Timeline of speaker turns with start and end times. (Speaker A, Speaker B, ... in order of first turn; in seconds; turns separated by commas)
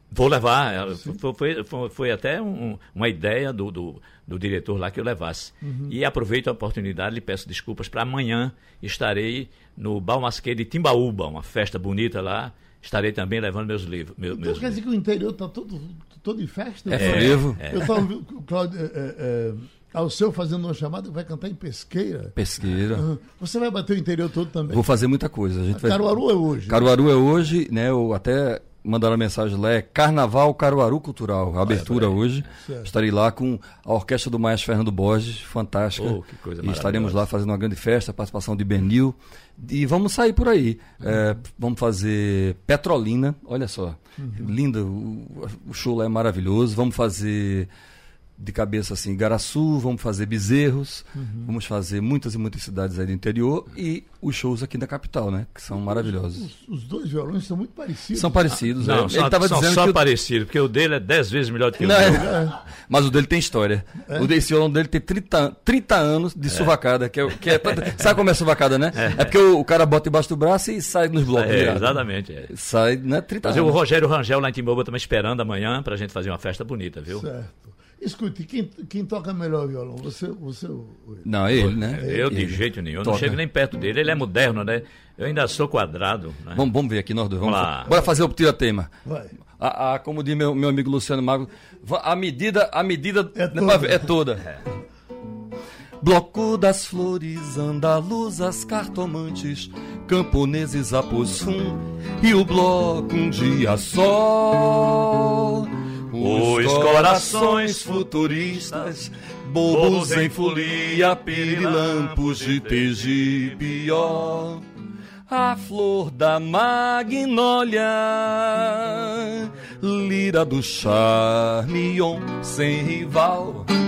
Speaker A: 0.1-14.8, Speaker B: 5.6-5.9, Speaker B: 14.3-22.4, Speaker C: 16.9-17.6, Speaker A: 16.9-17.9, Speaker C: 22.4-23.1, Speaker B: 22.9-24.8, Speaker C: 24.7-47.7, Speaker B: 25.7-26.9, Speaker A: 31.6-32.4, Speaker B: 32.6-32.9, Speaker A: 36.0-37.2, Speaker B: 44.2-44.5, Speaker C: 48.4-56.5, Speaker B: 51.2-51.5, Speaker B: 55.7-58.6, Speaker C: 58.1-60.0, Speaker A: 58.7-62.3, Speaker C: 61.8-73.8, Speaker B: 62.0-62.5, Speaker A: 68.9-69.3, Speaker A: 71.3-72.5, Speaker A: 73.4-77.2, Speaker B: 77.1-81.3, Speaker C: 81.2-83.4, Speaker A: 81.5-86.6, Speaker B: 81.9-82.3, Speaker C: 86.5-88.9, Speaker A: 87.4-87.9, Speaker B: 89.0-89.3, Speaker C: 89.6-94.5, Speaker B: 93.3-94.1, Speaker C: 96.0-114.6, Speaker A: 106.2-108.9, Speaker A: 109.7-113.8, Speaker C: 115.3-123.7